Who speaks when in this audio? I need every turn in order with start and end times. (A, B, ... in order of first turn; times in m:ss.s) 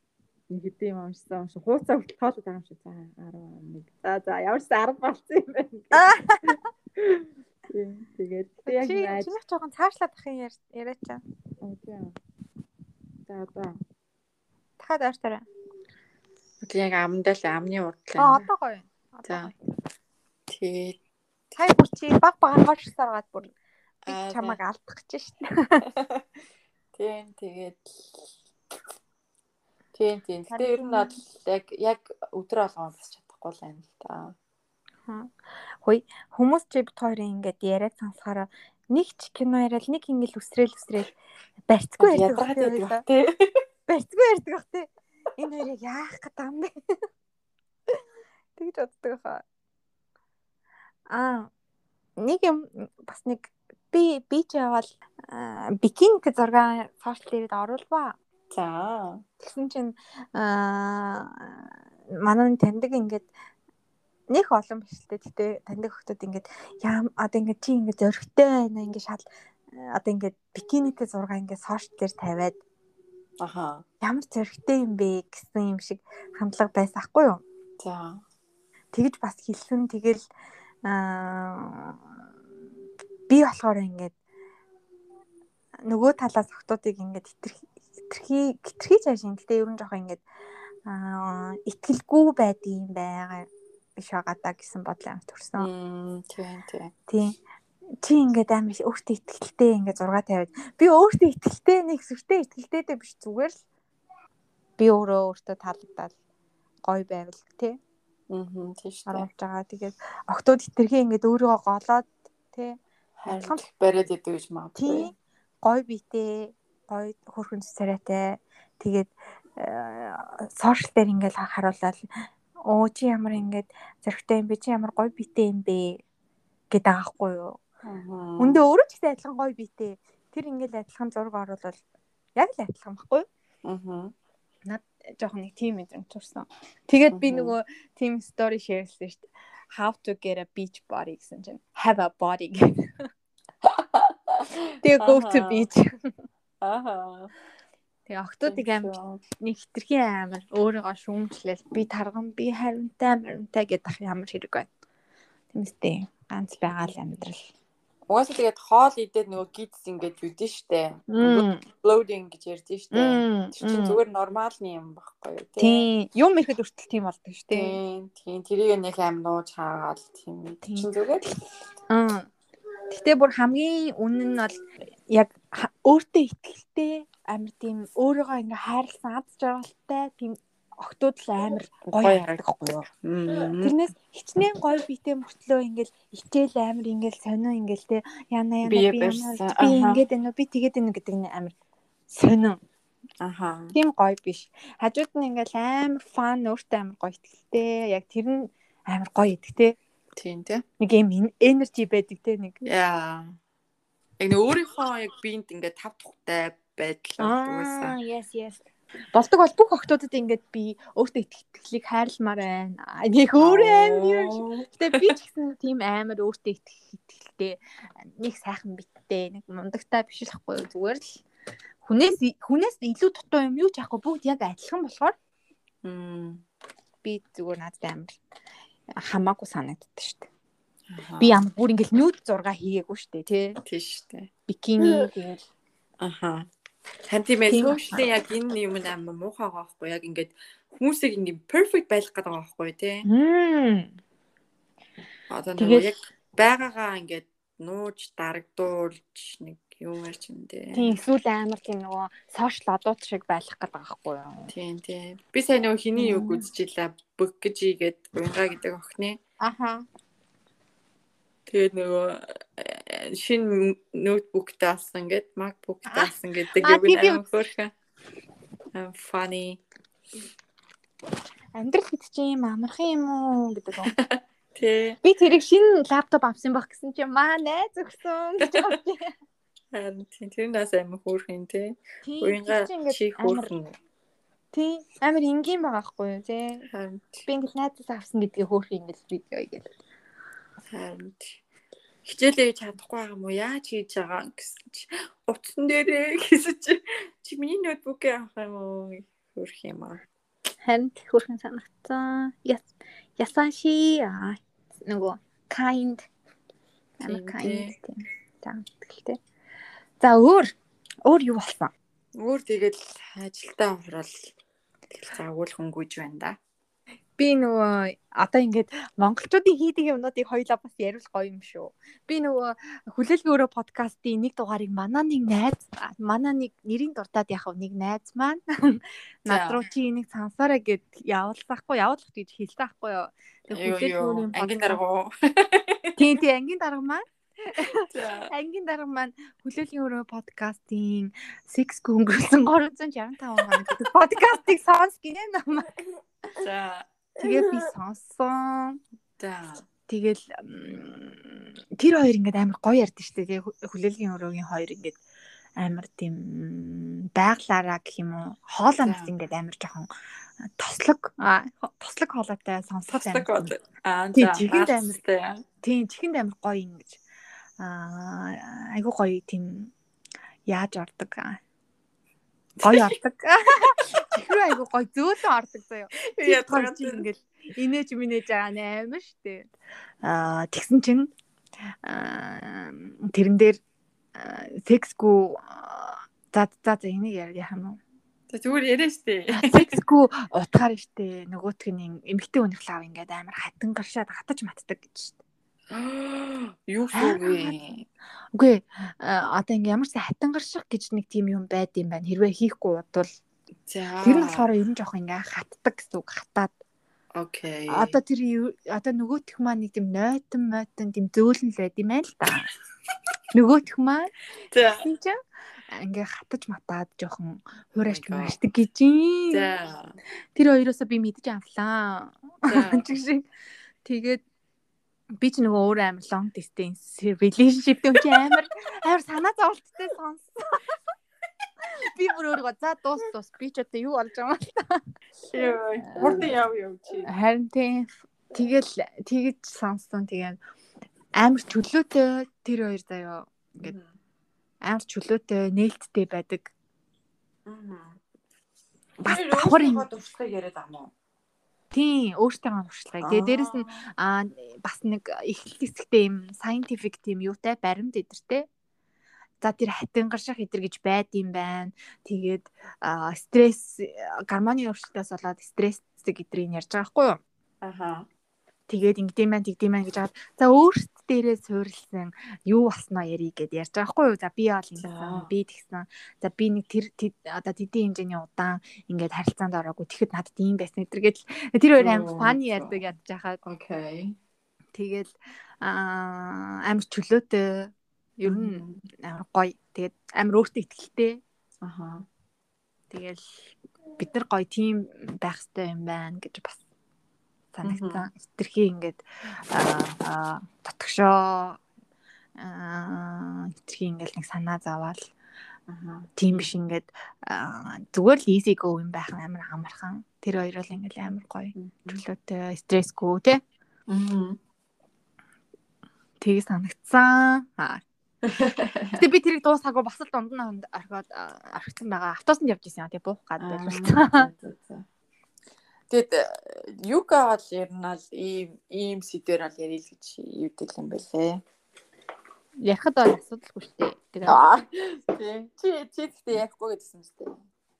0:00.5-0:09.3 A
0:05.9-0:06.6 B
0:08.6-0:11.2 B
0:11.6-0:12.1 A
0:13.3-0:13.8 A
0:14.8-0:15.4 B
0:16.6-0:18.4 A
0:18.2-0:19.6 B
0:19.3-0:19.5 A
0:20.5-0:21.0 A
0:21.6-0:23.5 B
0:24.0-0:24.6 A
0:24.1-0:25.9 B
0:25.9-0:26.2 A
0:26.9-0:28.3 A
0:29.9-0:34.4 A
0:30.5-0:31.2 B
0:35.1-0:41.2 B
0:41.7-0:43.0 B
0:42.0-0:43.5 A
0:43.9-0:46.7 B
0:48.6-0:49.4 B
0:51.1-0:51.5 B
0:52.2-0:58.2 B
0:58.5-0:59.2 A
0:59.4-1:03.3 B
1:04.3-1:12.6 B
1:13.4-1:13.8 A
1:14.0-1:17.4 B
1:17.8-1:18.2 A
1:18.9-1:20.2 B
1:20.8-1:22.0 B
1:23.3-1:24.1 B
1:25.9-1:30.2 B
1:30.8-1:35.7 B
1:35.6-1:36.9 A
1:37.1-1:37.4 B
1:38.0-1:43.6 B
1:44.8-1:46.1 B
1:46.8-1:47.8 B
1:48.3-1:49.3 A
1:49.1-1:53.6 B
1:53.2-1:55.1 A
1:54.8-2:02.1 B
2:02.7-2:06.0 B
2:06.7-2:07.6 B
2:07.8-2:08.6 A
2:08.4-2:11.8 B
2:12.4-2:13.3 B
2:13.6-2:14.1 A
2:14.6-2:23.1 B
2:17.1-2:17.5 A
2:23.6-2:25.7 A
2:24.8-2:25.9 B
2:26.6-2:27.3 A
2:28.1-2:34.7 B
2:28.4-2:29.2 A
2:35.5-2:37.4 B
2:38.1-2:45.9 A
2:41.1-2:41.6 B
2:42.9-2:44.0 B
2:45.6-2:47.8 B
2:47.5-2:51.3 A
2:50.6-2:50.9 B
2:51.9-2:52.3 B
2:52.9-3:02.9 B
3:01.9-3:03.8 A
3:03.6-3:11.5 B
3:08.6-3:10.0 A
3:12.1-3:12.6 B
3:13.2-3:13.7 A
3:13.7-3:19.8 B
3:20.2-3:20.6 A
3:20.8-3:22.6 B
3:22.6-3:23.4 A
3:24.2-3:27.9 A
3:27.2-3:28.6 B
3:29.1-3:41.2 B
3:33.4-3:35.1 A
3:41.8-3:45.1 B
3:45.8-3:46.4 A
3:47.0-3:48.2 B
3:49.0-3:50.3 B
3:50.9-3:51.4 A
3:51.2-3:53.6 B
3:53.6-3:54.3 A
3:54.5-3:55.4 B
3:56.0-3:56.5 A
3:57.1-4:03.0 A
3:57.5-3:58.0 B
4:03.0-4:03.9 B
4:05.3-4:11.0 A
4:05.6-4:05.9 B
4:10.7-4:14.5 B
4:14.5-4:19.2 A
4:16.0-4:16.4 B
4:19.4-4:19.8 B
4:21.5-4:27.7 A
4:25.9-4:27.2 B
4:28.7-4:29.6 A
4:31.5-4:33.9 B
4:33.9-4:35.0 A
4:35.0-4:39.1 B
4:38.5-4:38.7 A
4:39.7-4:43.7 A
4:42.0-4:43.5 B
4:44.5-4:46.7 B
4:46.7-4:47.3 A
4:47.3-4:49.7 B
4:50.7-4:51.4 A
4:52.0-5:00.0 A
5:00.6-5:06.1 B
5:07.0-5:09.2 B
5:07.0-5:07.7 A
5:10.0-5:11.7 B
5:12.2-5:14.3 A
5:14.9-5:16.4 A
5:17.2-5:34.8 B
5:29.3-5:29.6 A
5:33.5-5:36.1 A
5:36.0-5:45.8 B
5:37.8-5:38.3 A
5:46.4-5:46.9 A
5:47.2-5:48.8 B
5:49.2-5:49.6 A
5:49.9-5:55.0 B
5:55.6-5:59.9 B
5:58.8-5:59.1 A
6:00.4-6:03.5 B
6:02.9-6:05.4 A
6:04.1-6:05.0 B
6:05.6-6:07.0 B
6:07.6-6:09.7 B
6:10.5-6:11.4 B
6:12.6-6:19.5 B
6:12.6-6:12.9 A
6:16.1-6:17.0 A
6:20.0-6:21.1 B
6:21.8-6:23.6 B
6:24.2-6:27.8 B
6:28.3-6:29.8 A
6:29.3-6:35.2 B
6:35.7-6:37.9 A
6:36.9-6:37.5 B
6:38.3-6:43.1 B
6:43.7-6:44.4 A
6:44.0-6:46.6 B
6:47.1-6:48.0 A
6:47.7-6:52.5 B
6:53.3-6:54.1 B
6:54.5-6:54.8 A
6:54.7-6:55.2 B
6:55.7-6:59.5 B
6:57.8-6:58.4 A
6:59.3-7:00.0 A
7:00.4-7:03.3 B
7:02.5-7:02.9 A
7:03.8-7:04.2 B
7:05.2-7:10.8 B
7:11.6-7:14.8 B
7:15.3-7:17.1 A
7:15.8-7:16.3 B
7:17.1-7:20.4 B
7:21.2-7:23.7 B
7:23.6-7:23.9 A
7:24.6-7:26.5 B
7:27.4-7:28.0 A
7:29.0-7:30.9 A
7:29.0-7:29.9 B
7:31.7-7:38.5 B
7:33.0-7:33.9 A
7:39.4-7:47.2 B
7:47.6-7:48.1 A
7:48.7-8:03.4 B
7:54.8-7:55.3 A
8:01.8-8:02.8 A
8:03.4-8:04.2 A
8:04.7-8:11.2 B
8:08.2-8:08.8 A
8:11.6-8:12.0 A
8:12.9-8:16.6 B
8:17.5-8:21.6 B
8:17.6-8:18.0 A
8:22.4-8:25.0 B
8:25.7-8:26.5 A
8:26.2-8:33.4 B
8:31.5-8:32.0 A
8:33.9-8:34.4 A
8:36.2-8:37.8 B
8:38.2-8:39.0 A
8:39.0-8:44.3 B
8:43.4-8:44.8 A
8:45.9-8:51.4 A
8:52.6-8:54.4 B
8:54.3-8:57.4 A